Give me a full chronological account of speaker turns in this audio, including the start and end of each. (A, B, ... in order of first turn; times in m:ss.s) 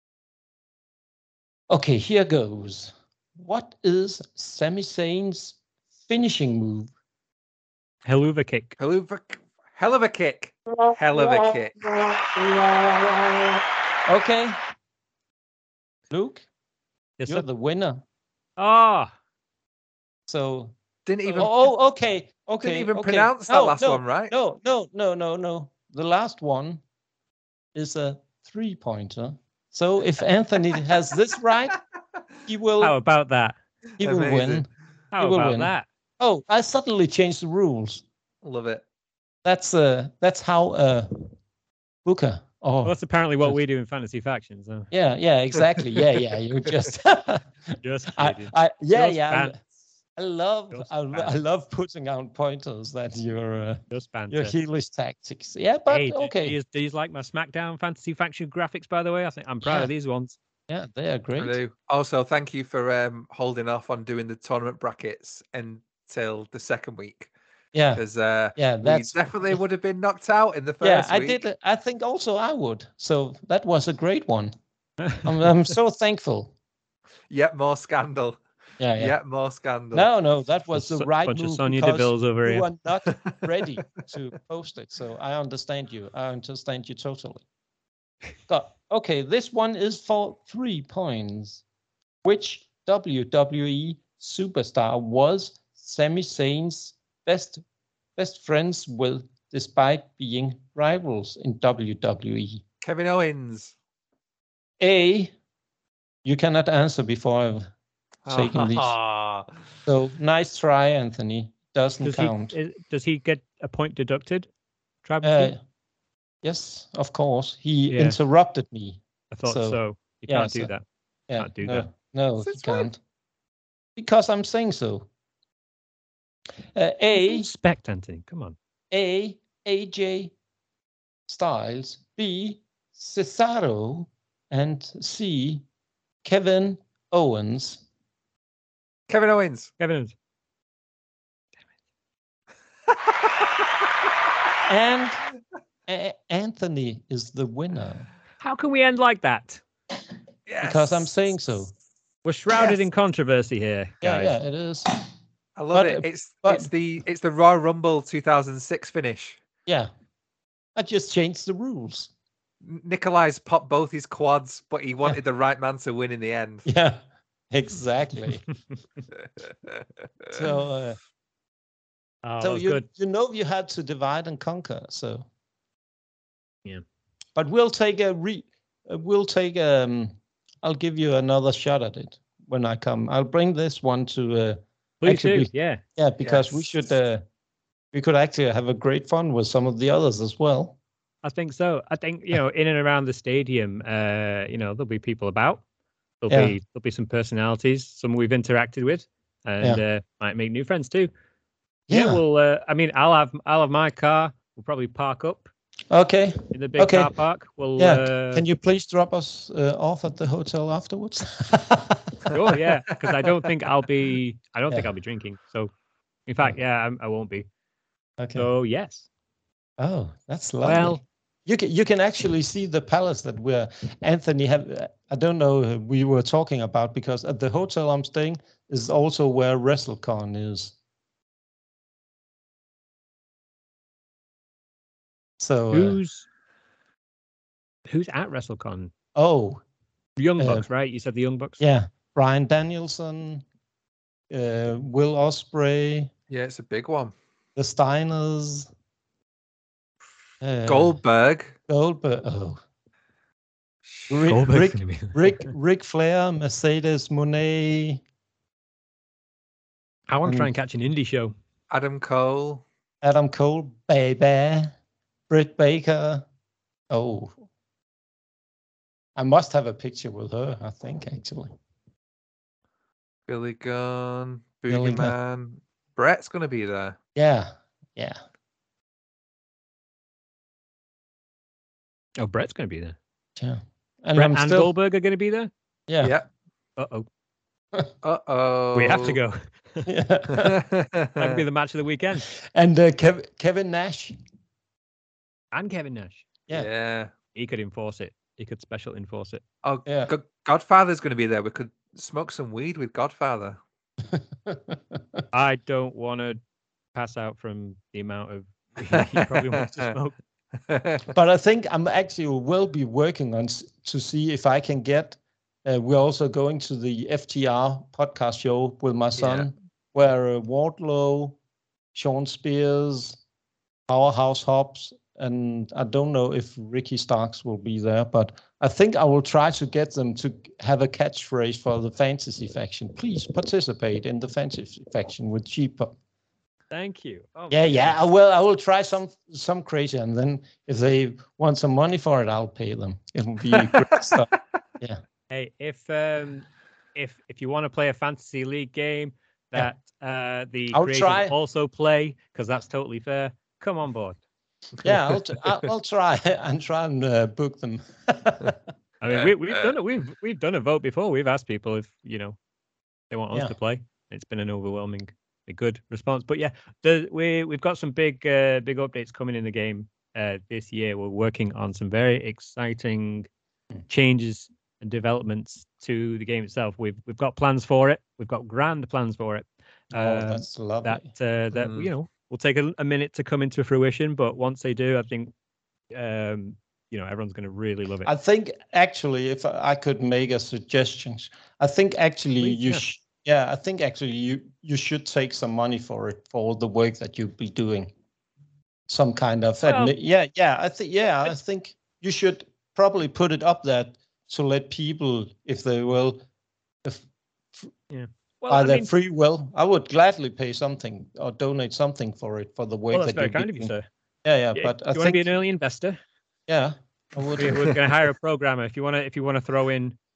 0:01.7-0:06.9 A
0:08.0-0:08.8 B
0:08.8-0:11.9 C
0:14.1-0:14.6 A
0:16.1-0:16.4 A
0:17.2-0:17.4 B
0:17.3-0:18.0 A
0:18.6-0:19.1 B
0:20.3-0:20.7 A
0:21.1-0:21.6 C
0:21.3-0:26.8 A
0:22.6-0:24.3 C
0:27.7-0:31.8 A
0:32.4-0:33.0 A
0:32.8-0:33.6 B
0:34.0-0:34.6 C
0:34.0-0:38.0 A
0:35.1-0:35.9 B
0:38.4-0:38.8 C
0:39.4-0:41.3 A
0:42.0-0:43.6 A
0:42.8-0:44.9 B
0:44.9-0:49.6 A
0:47.8-0:49.6 B
0:50.2-0:56.6 A
0:50.7-0:51.3 B
0:53.9-0:54.6 B
0:55.9-1:00.4 B
0:59.6-0:59.9 A
1:00.7-1:01.6 A
1:01.4-1:07.3 C
1:07.7-1:08.0 A
1:08.0-1:11.4 C
1:08.6-1:09.6 A
1:10.8-1:14.5 A
1:15.0-1:15.3 B
1:15.2-1:16.5 A
1:17.3-1:18.4 C
1:18.8-1:19.2 A
1:19.0-1:20.1 C
1:19.9-1:27.4 A
1:20.7-1:22.7 B
1:28.5-1:31.6 A
1:32.2-1:37.6 A
1:38.2-1:42.6 A
1:42.8-1:43.7 C
1:44.8-1:45.3 A
1:46.2-1:47.7 A
1:48.3-1:49.5 C
1:48.3-1:49.0 A
1:49.9-1:52.6 A
1:52.0-1:54.5 B
1:55.0-1:55.5 B
1:55.2-1:55.6 A
1:56.4-2:00.7 A
1:57.9-1:58.2 B
1:59.3-2:00.8 B
2:01.3-2:03.0 A
2:01.4-2:01.9 B
2:02.4-2:02.9 C
2:04.0-2:05.1 A
2:06.7-2:07.5 A
2:07.2-2:08.6 B
2:08.9-2:10.3 A
2:11.3-2:15.6 A
2:16.2-2:17.8 A
2:19.1-2:19.7 C
2:19.8-2:20.1 B
2:24.7-2:25.2 A
2:25.9-2:28.1 A
2:28.4-2:29.6 B
2:30.5-2:31.1 C
2:30.6-2:31.7 A
2:32.2-2:34.3 B
2:34.0-2:35.0 A
2:35.6-2:39.4 C
2:35.7-2:36.7 A
2:40.8-2:42.1 A
2:42.6-2:46.6 C
2:46.6-2:48.4 A
2:50.3-2:51.0 A
2:52.2-2:52.9 B
2:52.4-2:55.3 A
2:57.4-3:07.2 A
3:05.0-3:05.8 B
3:06.2-3:06.8 C
3:07.9-3:10.8 A
3:11.2-3:15.6 B
3:16.2-3:21.1 B
3:16.3-3:16.6 A
3:21.9-3:22.2 A
3:21.9-3:25.5 B
3:25.9-3:27.1 A
3:26.5-3:28.4 B
3:27.8-3:32.3 A
3:32.3-3:35.7 B
3:36.3-3:37.5 B
3:38.2-3:38.5 A
3:38.4-3:39.1 B
3:39.8-3:50.7 A
3:40.6-3:41.0 B
3:55.4-3:56.0 A
3:55.7-3:56.3 B
3:57.9-3:58.9 B
3:59.2-3:59.6 A
4:00.2-4:01.6 B
4:00.4-4:00.6 A
4:01.6-4:03.4 A
4:04.3-4:06.1 A
4:06.3-4:07.1 C
4:07.6-4:08.7 A
4:10.4-4:11.0 A
4:10.6-4:11.6 C
4:11.7-4:12.6 A
4:13.9-4:14.2 C
4:14.1-4:18.0 A
4:14.2-4:15.5 B
4:20.1-4:21.3 B
4:20.2-4:20.5 A
4:21.7-4:22.6 C
4:23.0-4:24.7 A
4:25.3-4:26.2 A
4:26.9-4:27.4 A
4:29.2-4:31.5 A
4:33.3-4:37.0 C
4:34.7-4:35.2 A
4:37.2-4:38.2 A
4:42.2-4:43.0 B
4:43.4-4:44.7 A
4:44.2-4:45.5 B
4:45.9-4:46.2 A
4:46.0-4:46.3 C
4:46.8-4:47.1 B
4:48.0-4:49.2 C
4:48.7-4:49.9 B
4:49.9-4:50.6 A
4:50.4-4:51.4 C
4:51.2-4:52.3 B
4:52.4-4:54.2 A
4:55.5-4:56.3 B
4:56.5-4:57.1 C
4:57.3-4:59.4 B
4:59.6-5:03.6 C
4:59.9-5:00.1 A
5:04.1-5:05.2 A
5:05.3-5:06.4 B
5:06.9-5:10.2 B
5:10.7-5:11.0 C
5:11.1-5:21.4 A
5:19.2-5:19.5 C
5:21.9-5:23.2 A
5:23.9-5:35.9 A
5:36.7-5:38.0 B
5:37.5-5:44.3 A
5:43.5-5:44.1 C
5:45.3-5:54.2 B
5:50.7-5:51.4 A
5:54.8-5:58.6 A
5:59.0-6:02.4 B
5:59.2-5:59.5 C
6:03.1-6:13.3 B
6:13.9-6:25.3 B
6:19.9-6:21.1 A
6:21.5-6:21.9 C
6:25.9-6:28.1 B
6:28.0-6:37.9 A
6:32.4-6:32.8 B
6:38.9-6:46.2 A
6:39.6-6:39.9 B
6:46.8-6:47.7 A
6:47.9-6:48.9 B
6:48.5-6:55.3 A
6:52.9-6:53.9 B
6:54.6-6:56.0 B
6:56.5-6:57.8 A
6:57.4-7:00.0 B